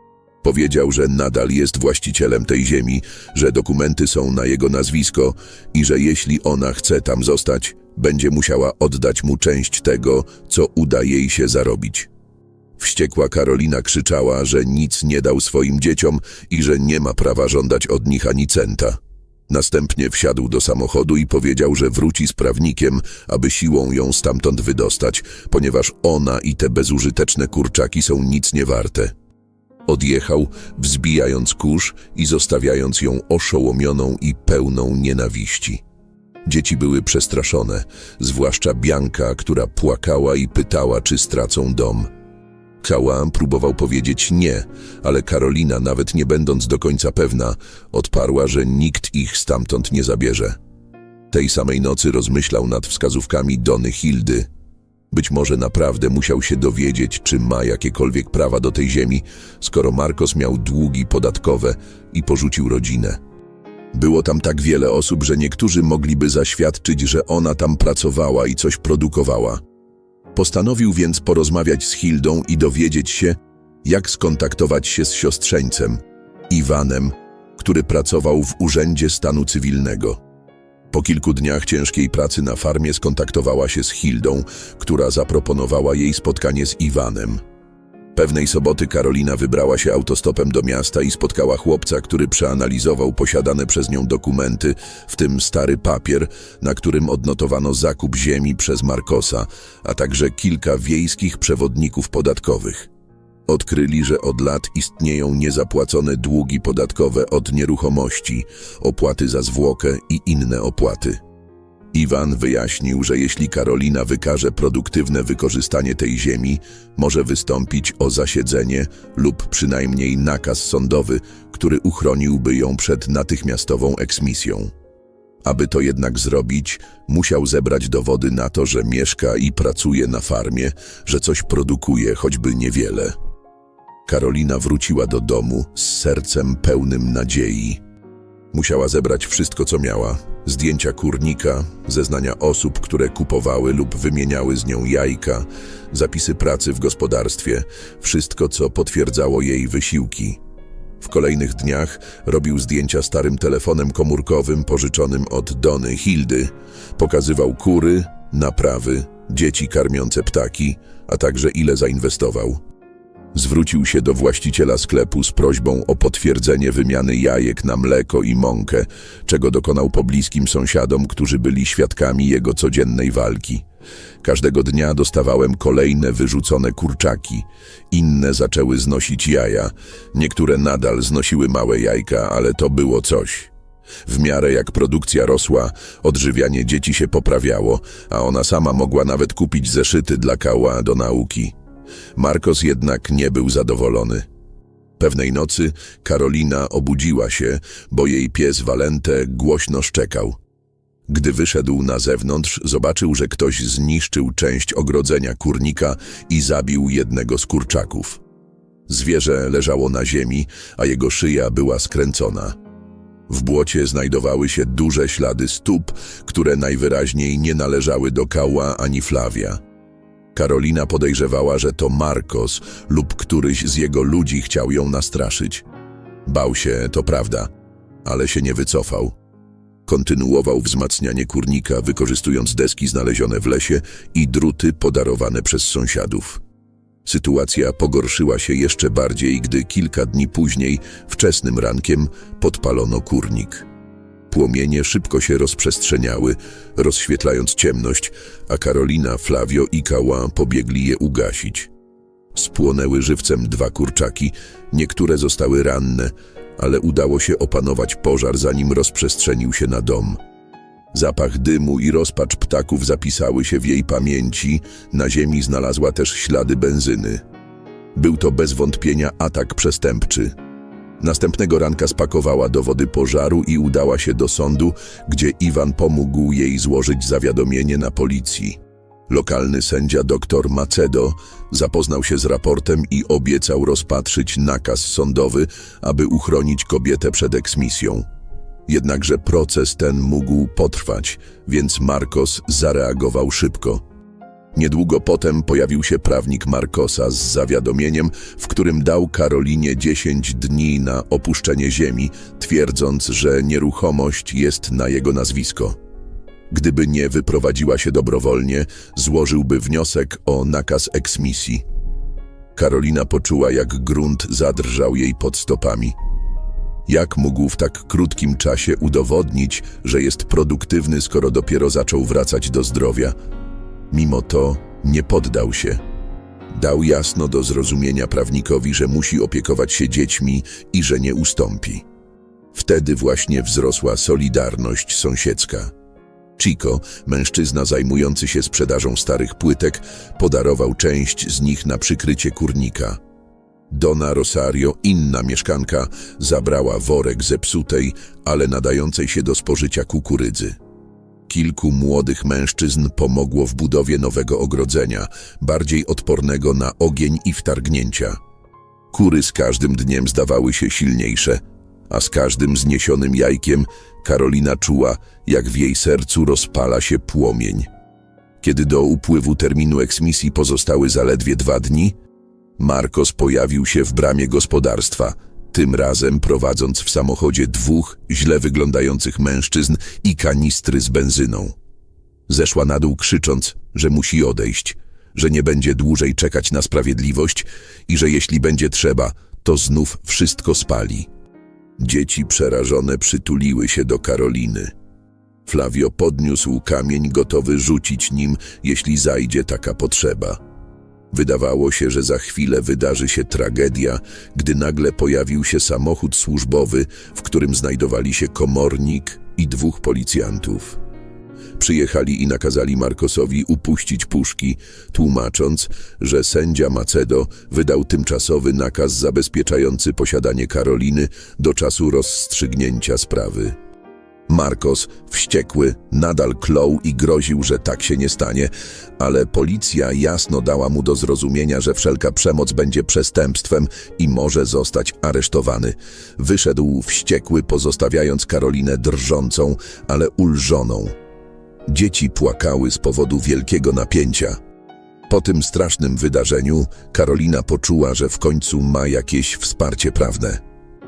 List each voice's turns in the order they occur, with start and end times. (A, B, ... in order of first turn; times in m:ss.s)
0:00.4-0:12.1 A
0:12.8-0:29.1 A
0:29.9-0:35.8 A
0:36.4-0:42.1 A
0:42.8-0:50.6 A
0:51.3-0:54.5 A
0:55.1-1:03.2 A
1:03.9-1:09.6 A
1:10.4-1:20.2 A
1:20.9-1:27.4 A
1:28.2-1:42.9 A
1:43.5-1:51.2 A
1:51.9-2:04.7 A
2:05.4-2:13.1 A
2:14.1-2:17.8 A
2:18.5-2:30.4 A
2:31.0-2:42.6 A
2:43.3-2:53.6 A
2:54.2-3:03.5 A
3:04.1-3:11.5 A
3:12.2-3:14.3 A
3:15.0-3:20.4 A
3:21.1-3:28.2 A
3:28.9-3:32.6 A
3:33.3-3:39.6 A
3:40.4-3:45.6 A
3:46.3-3:47.5 A
3:48.0-3:49.2 A
3:49.9-3:56.4 A
3:57.0-4:03.7 A
4:04.3-4:11.7 A
4:12.3-4:20.2 A
4:20.9-4:27.2 A
4:28.0-4:30.3 A
4:31.0-4:48.0 A
4:48.7-4:53.8 A
4:54.5-5:05.8 A
5:06.5-5:11.6 A
5:12.6-5:16.0 A
5:16.9-5:23.2 A
5:23.9-5:25.8 A
5:26.5-5:31.8 A
5:32.5-5:35.7 A
5:36.4-5:43.0 A
5:43.7-5:50.6 A
5:51.3-5:58.2 A
5:58.9-6:07.7 A
6:08.4-6:12.0 A
6:12.6-6:21.6 A
6:22.3-6:31.1 A
6:31.8-6:34.7 A
6:35.4-6:40.4 A
6:41.1-6:50.8 A
6:51.6-7:03.6 A
7:04.3-7:20.9 A
7:21.7-7:24.4 A
7:25.1-7:30.4 A